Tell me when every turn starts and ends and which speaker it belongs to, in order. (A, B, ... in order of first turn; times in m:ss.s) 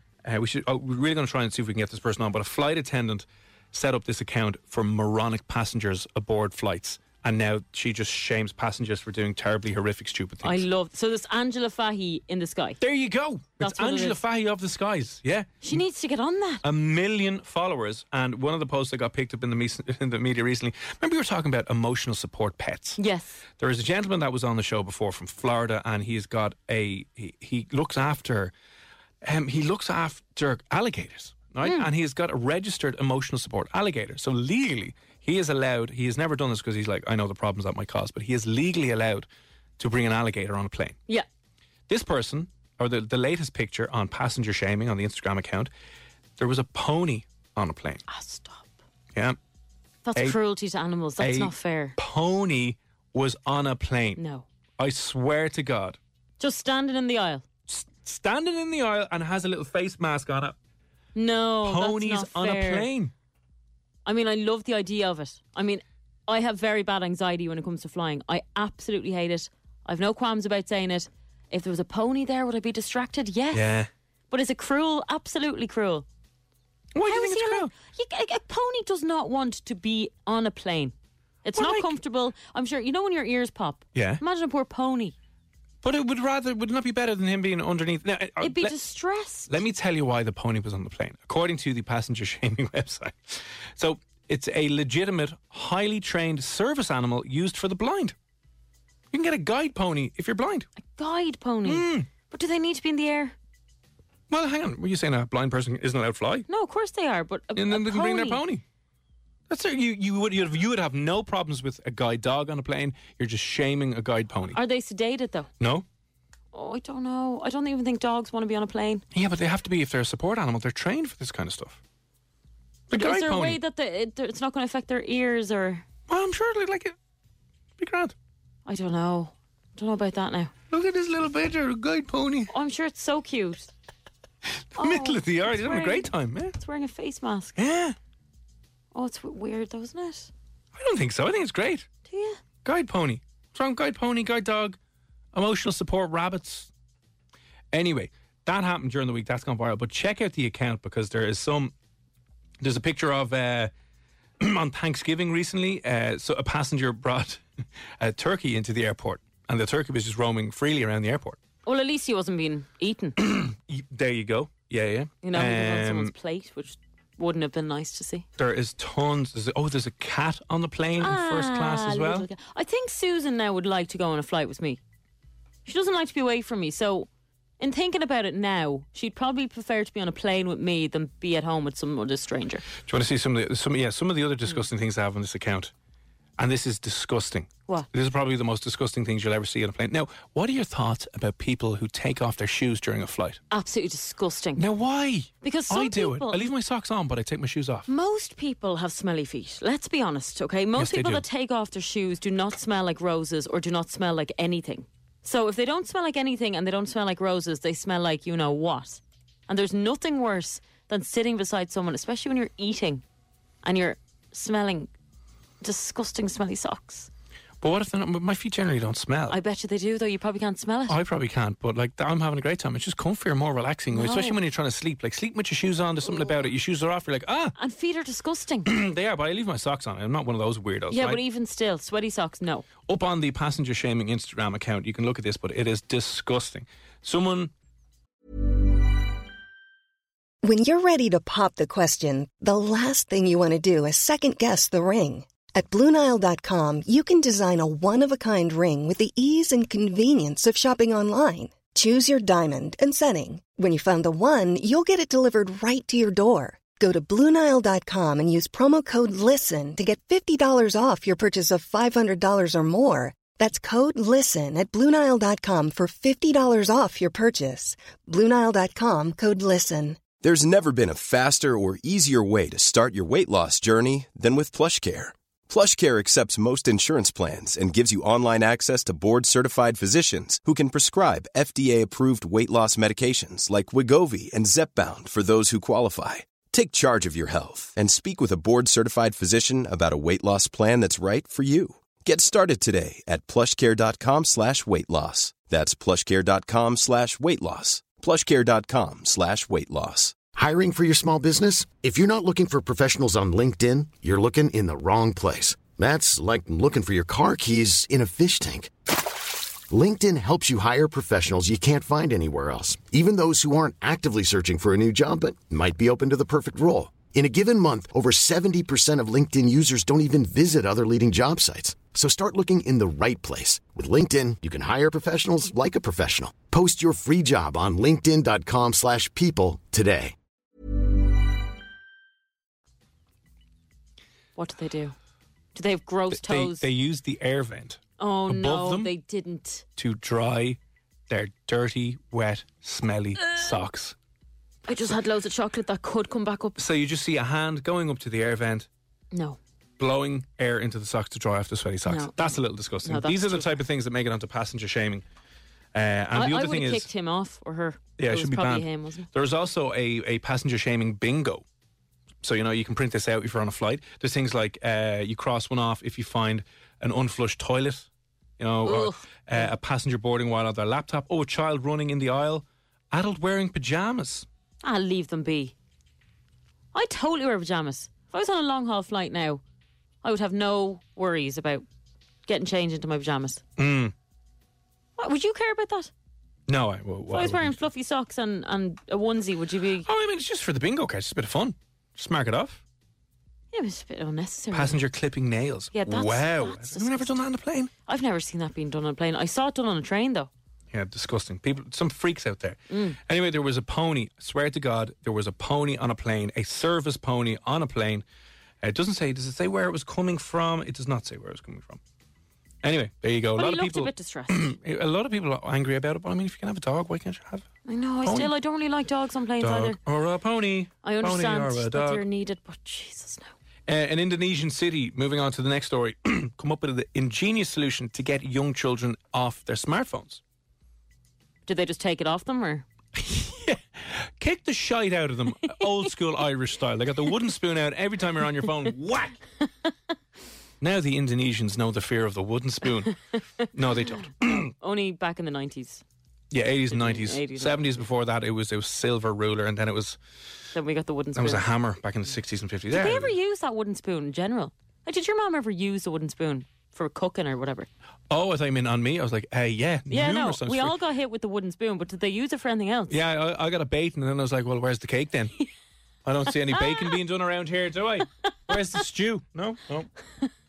0:00.2-0:10.6 A
0:10.4-0:12.8 B
0:12.8-0:15.8 A
0:13.6-0:14.2 B
0:15.6-0:16.6 B
0:16.6-0:23.0 A
0:23.0-0:23.4 B
0:23.6-0:28.5 A
0:29.2-0:39.3 A
0:31.6-0:31.9 B
0:39.8-0:41.0 A
0:41.9-0:45.7 A
0:46.4-0:48.0 A
0:48.1-0:48.7 B
0:50.1-0:52.0 B
0:51.2-0:54.2 A
0:54.2-0:54.5 B
0:54.8-0:56.0 A
0:56.4-0:57.4 B
0:57.7-1:00.6 A
1:01.2-1:02.9 B
1:01.6-1:03.1 A
1:04.0-1:13.7 B
1:13.5-1:13.9 A
1:14.3-1:16.0 B
1:17.0-1:17.7 A
1:17.0-1:20.9 B
1:21.4-1:25.1 B
1:21.6-1:21.9 A
1:24.0-1:24.2 A
1:25.8-1:28.8 A
1:28.4-1:29.5 B
1:29.5-1:38.2 A
1:39.1-1:40.7 A
1:40.8-1:43.4 B
1:41.6-1:42.1 A
1:44.3-1:46.5 A
1:46.5-1:48.4 B
1:47.6-1:48.6 A
1:49.5-1:54.6 A
1:54.5-1:55.5 B
1:55.6-1:55.8 A
1:56.5-1:59.0 B
1:59.1-2:01.8 A
2:02.9-2:03.6 A
2:02.9-2:05.8 B
2:06.1-2:07.0 A
2:07.8-2:08.1 A
2:08.7-2:10.5 B
2:10.7-2:12.5 A
2:12.5-2:13.7 B
2:14.8-2:16.6 A
2:14.8-2:17.6 B
2:17.6-2:18.0 A
2:18.9-2:20.3 B
2:20.8-2:21.9 A
2:22.1-2:22.4 B
2:22.6-2:24.8 A
2:25.3-2:26.7 A
2:27.7-2:31.7 A
2:32.6-2:33.7 A
2:34.4-2:37.4 A
2:38.0-2:41.4 A
2:41.7-2:43.2 B
2:43.2-2:46.1 A
2:45.2-2:48.2 B
2:48.4-2:52.3 A
2:51.0-2:54.8 B
2:55.6-2:57.1 B
2:57.6-3:02.7 B
3:02.8-3:05.7 A
3:06.4-3:13.4 A
3:13.5-3:14.6 B
3:14.6-3:17.9 A
3:15.4-3:16.5 B
3:17.9-3:33.0 B
3:20.8-3:21.2 A
3:33.6-3:34.9 B
3:35.6-3:37.1 B
3:37.6-3:39.4 A
3:39.3-3:41.0 B
3:40.9-3:47.6 A
3:43.9-3:44.4 B
3:47.6-3:48.7 B
3:48.7-3:51.2 A
3:50.9-3:52.7 B
3:52.9-3:57.5 A
4:00.4-4:30.0 C
4:30.2-5:00.2 D
5:00.3-5:08.7 E
5:09.7-5:30.2 E
5:34.4-5:35.0 B
5:35.6-5:36.7 B
5:36.1-5:38.9 A
5:38.0-5:39.6 B
5:39.8-5:40.6 A
5:41.1-5:44.0 A
5:44.7-5:46.6 B
5:46.6-5:48.7 A
5:49.1-5:49.4 B
5:49.8-5:55.0 A
5:51.9-5:52.2 B
5:52.8-5:53.5 B
5:55.7-5:56.9 A
5:56.1-5:59.1 B
5:58.0-6:01.4 A
6:02.2-6:07.9 A
6:08.4-6:14.3 A
6:08.6-6:09.5 B
6:14.6-6:15.5 B
6:16.7-6:19.4 B
6:20.0-6:21.6 B
6:22.3-6:23.4 B
6:23.6-6:23.9 A
6:25.0-6:25.9 B
6:26.5-6:27.6 A
6:27.1-6:29.9 B
6:29.8-6:32.6 A
6:33.5-6:34.8 B
6:34.5-6:37.7 A
6:35.7-6:37.2 B
6:37.9-6:40.3 B
6:40.7-6:48.0 A
6:42.7-6:43.0 B
6:48.6-6:51.8 A
6:52.6-6:57.5 A
6:53.4-6:54.5 B
6:57.7-6:59.8 B
6:58.0-6:58.3 A
6:59.4-7:02.0 A
7:00.8-7:03.3 B
7:03.7-7:10.2 A
7:11.5-7:12.6 B
7:13.0-7:19.2 A
7:20.6-7:23.0 A
7:23.5-7:24.5 A
7:24.6-7:25.8 B
7:26.3-7:30.0 A
7:26.7-7:27.7 B
7:30.6-7:31.4 B
7:31.2-7:33.1 A
7:32.7-7:37.7 B
7:38.1-7:40.8 A
7:39.9-7:43.0 B
7:42.9-7:45.4 A
7:46.0-7:49.9 A